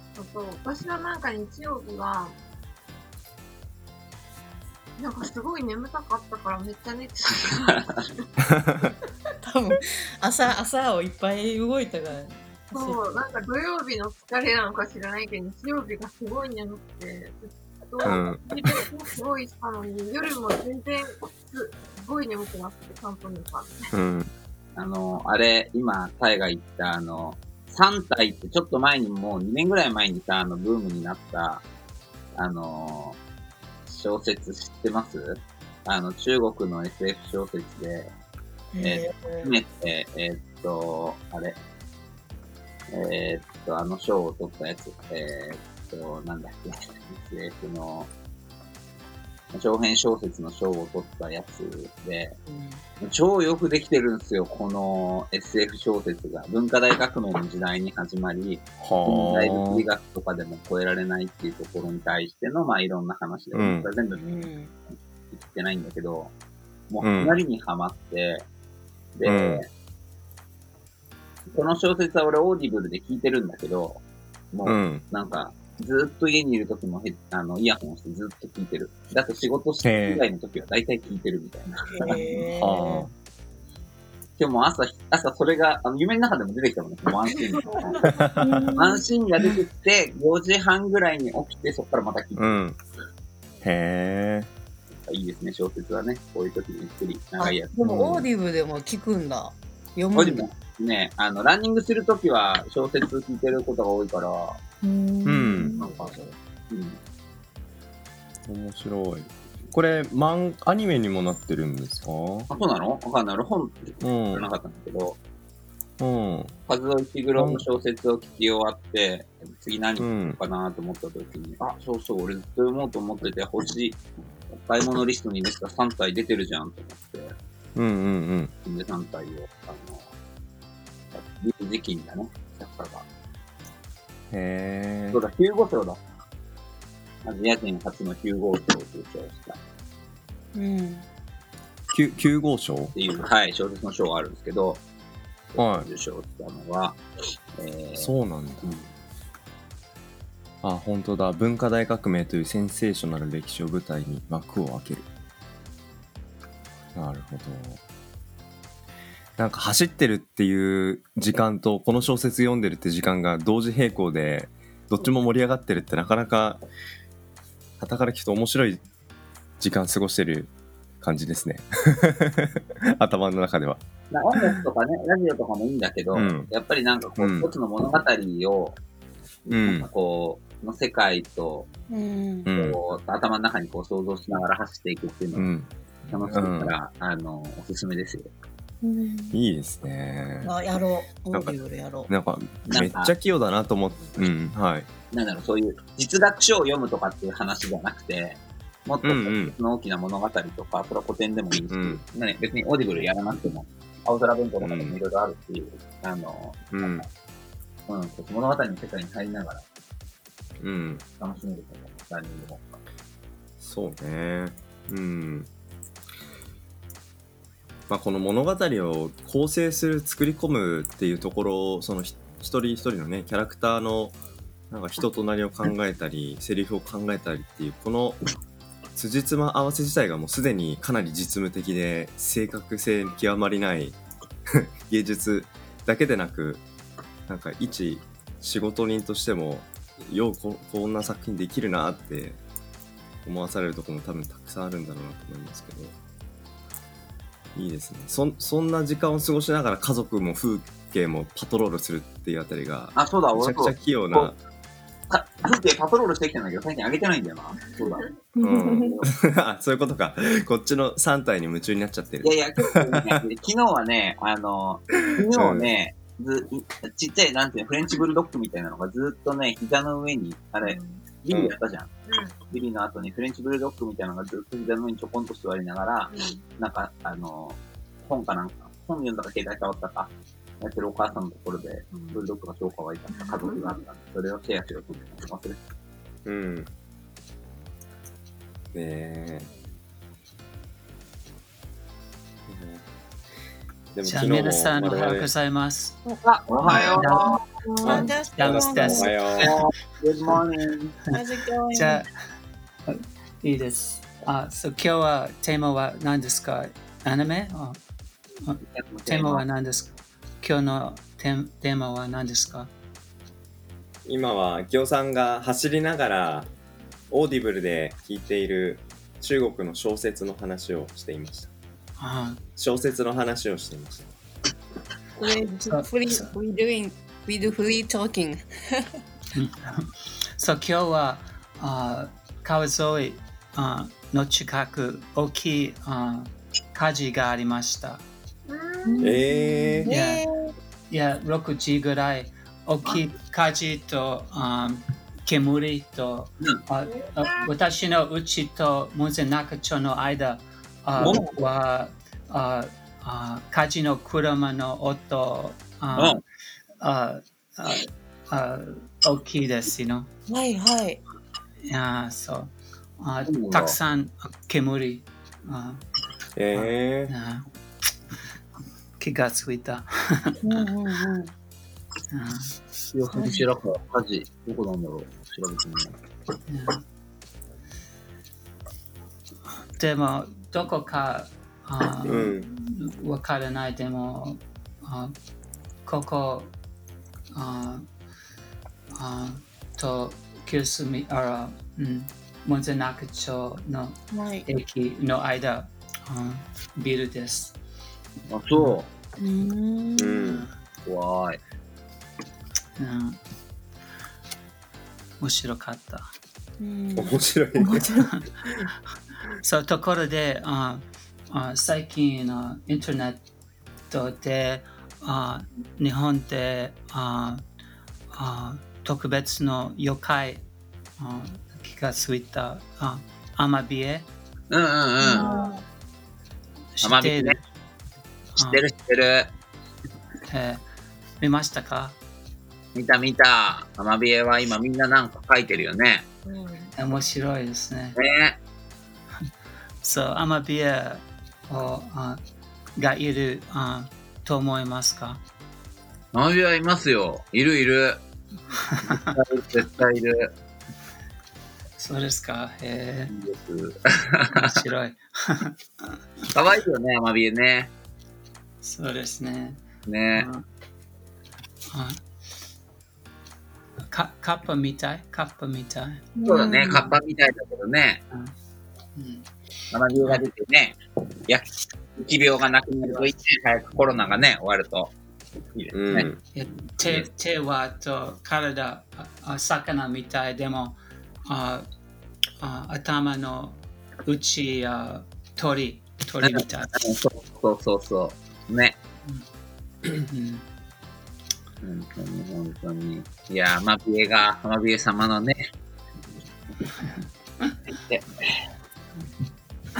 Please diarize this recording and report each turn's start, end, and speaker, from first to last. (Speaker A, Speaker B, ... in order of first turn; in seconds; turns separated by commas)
Speaker A: 0.2-2.4, Speaker A: 5.0-7.9, Speaker B: 7.4-8.0, Speaker C: 8.6-8.9, Speaker D: 9.4-13.0, Speaker A: 12.7-23.9, Speaker C: 18.0-18.7, Speaker C: 23.9-24.3, Speaker B: 24.8-31.6, Speaker B: 32.4-33.2, Speaker B: 33.9-38.1, Speaker D: 38.7-39.5, Speaker B: 38.8-41.6, Speaker B: 42.9-48.1, Speaker B: 49.5-52.4, Speaker D: 52.5-52.8, Speaker B: 53.0-64.4, Speaker C: 58.8-59.9, Speaker C: 63.5-63.9, Speaker D: 64.2-64.7, Speaker B: 65.3-66.3, Speaker B: 66.9-68.5, Speaker C: 67.0-67.4, Speaker B: 69.1-69.7, Speaker C: 69.3-69.6, Speaker B: 71.5-82.3, Speaker C: 74.6-75.0, Speaker C: 79.8-80.2, Speaker D: 81.9-83.1, Speaker C: 82.6-83.1, Speaker B: 84.4-88.2, Speaker C: 88.2-88.6, Speaker E: 88.4-89.0, Speaker B: 88.8-92.6, Speaker C: 92.3-92.8, Speaker C: 93.6-94.5, Speaker B: 95.1-97.8, Speaker D: 97.4-100.5, Speaker C: 97.8-98.3, Speaker B: 100.1-104.6, Speaker E: 104.8-105.8, Speaker C: 105.2-105.8, Speaker B: 105.8-106.2, Speaker D: 105.8-106.3, Speaker B: 106.7-107.0, Speaker C: 108.5-112.5, Speaker B: 112.5-115.2, Speaker C: 114.0-114.5, Speaker C: 116.0-116.5, Speaker B: 116.7-124.0, Speaker C: 117.4-117.6, Speaker C: 120.0-120.4, Speaker B: 124.5-127.4, Speaker C: 127.8-128.5, Speaker B: 128.6-130.1, Speaker B: 131.1-133.1, Speaker C: 134.3-135.2, Speaker B: 135.1-136.0, Speaker B: 137.2-139.6, Speaker D: 140.6-141.1, Speaker C: 141.9-142.9, Speaker B: 142.9-144.8, Speaker B: 145.5-147.0, Speaker C: 145.6-145.9, Speaker B: 147.6-148.9, Speaker C: 148.0-148.8, Speaker C: 150.6-155.1, Speaker C: 156.9-157.8, Speaker C: 159.4-166.6, Speaker C: 167.8-168.8, Speaker C: 169.6-173.8, Speaker B: 174.1-178.8, Speaker C: 176.1-176.5, Speaker C: 177.2-177.5, Speaker B: 179.5-181.7, Speaker C: 179.5-179.9, Speaker D: 181.9-182.5, Speaker C: 182.5-182.8, Speaker B: 182.5-185.5, Speaker C: 185.3-186.8, Speaker B: 186.1-188.3, Speaker E: 188.8-189.4, Speaker C: 189.3-190.5, Speaker D: 190.4-192.1, Speaker C: 191.3-191.6, Speaker C: 192.1-194.9, Speaker B: 192.7-193.1, Speaker B: 195.1-207.1, Speaker C: 199.0-199.6, Speaker C: 201.7-202.0, Speaker C: 204.6-204.9, Speaker C: 206.7-207.1, Speaker B: 207.9-209.7, Speaker C: 210.6-211.0, Speaker B: 211.2-212.8, Speaker C: 213.6-215.5, Speaker C: 217.9-224.2, Speaker C: 224.7-228.2, Speaker C: 228.9-236.6, Speaker C: 237.3-242.4, Speaker C: 243.2-245.9, Speaker C: 247.6-254.4, Speaker B: 252.9-254.3, Speaker B: 255.1-258.1, Speaker A: 257.6-258.1, Speaker E: 258.4-258.9, Speaker C: 258.4-263.2, Speaker B: 258.7-259.1, Speaker B: 262.2-271.9, Speaker C: 265.3-265.7, Speaker A: 270.6-271.1, Speaker A: 272.1-272.4, Speaker B: 272.4-285.6, Speaker A: 276.1-276.4, Speaker A: 281.9-282.2, Speaker A: 283.1-283.8, Speaker C: 286.2-286.7, Speaker C: 288.7-289.5, Speaker C: 292.5-292.9, Speaker C: 293.9-295.3, Speaker F: 294.0-296.0, Speaker B: 296.2-297.4, Speaker F: 296.7-297.4, Speaker A: 296.8-297.3, Speaker D: 297.8-299.2, Speaker C: 297.9-299.6, Speaker F: 298.3-299.5, Speaker B: 299.4-301.0, Speaker D: 301.1-302.1, Speaker F: 301.7-302.1, Speaker F: 302.9-307.8, Speaker F: 308.4-312.7, Speaker B: 308.7-309.4, Speaker C: 314.1-316.5, Speaker C: 317.1-321.5, Speaker F: 322.0-322.4, Speaker C: 322.6-324.1, Speaker D: 325.2-328.9, Speaker F: 325.6-326.3, Speaker F: 329.4-338.1, Speaker A: 338.5-339.2, Speaker E: 338.9-339.9, Speaker C: 339.0-339.9, Speaker D: 339.9-340.3, Speaker F: 339.9-340.2, Speaker F: 340.9-356.2, Speaker A: 346.9-347.5, Speaker B: 351.0-351.4, Speaker B: 355.9-356.2, Speaker F: 356.8-360.1, Speaker D: 360.3-361.0, Speaker F: 361.7-365.8, Speaker B: 363.2-363.8, Speaker C: 366.4-367.1, Speaker F: 366.5-367.5, Speaker F: 369.0-370.6, Speaker D: 370.4-371.3, Speaker F: 372.1-372.5, Speaker B: 372.9-376.0, Speaker F: 376.5-376.8, Speaker F: 379.8-385.1, Speaker C: 382.0-382.5, Speaker F: 385.9-386.5, Speaker F: 387.3-387.9, Speaker F: 388.9-397.6, Speaker D: 394.1-394.5, Speaker B: 398.3-398.9, Speaker D: 399.2-400.3, Speaker C: 400.0-400.4, Speaker F: 400.2-400.5, Speaker B: 400.8-401.4, Speaker F: 402.8-403.2, Speaker F: 405.2-406.1, Speaker D: 406.6-407.2, Speaker C: 407.0-408.0, Speaker F: 407.9-408.3, Speaker F: 409.4-413.2, Speaker F: 413.9-417.4, Speaker F: 418.1-420.4, Speaker F: 421.0-424.1, Speaker B: 424.5-425.3, Speaker E: 425.1-425.6, Speaker F: 426.8-427.4, Speaker B: 426.8-427.4, Speaker B: 428.4-429.3, Speaker F: 430.3-430.6, Speaker F: 431.2-432.0, Speaker B: 432.8-436.1, Speaker A: 436.2-436.7, Speaker F: 436.8-438.0, Speaker B: 437.9-438.4, Speaker F: 439.8-442.2, Speaker F: 442.8-445.2, Speaker B: 446.1-448.0, Speaker F: 448.6-449.1, Speaker B: 448.9-450.3, Speaker F: 451.8-453.1, Speaker B: 453.1-454.6, Speaker F: 454.3-455.6, Speaker B: 456.3-457.7, Speaker F: 458.6-459.6, Speaker B: 459.9-460.3, Speaker F: 460.1-460.4, Speaker F: 461.7-462.0, Speaker F: 463.9-466.1, Speaker D: 466.2-466.8, Speaker B: 466.2-468.0, Speaker F: 469.0-469.3, Speaker B: 469.7-474.9, Speaker B: 475.5-476.1, Speaker C: 475.7-476.2, Speaker F: 476.3-481.7, Speaker B: 476.8-477.1, Speaker F: 482.4-486.7, Speaker B: 486.2-488.8, Speaker F: 489.9-490.4, Speaker B: 491.6-495.5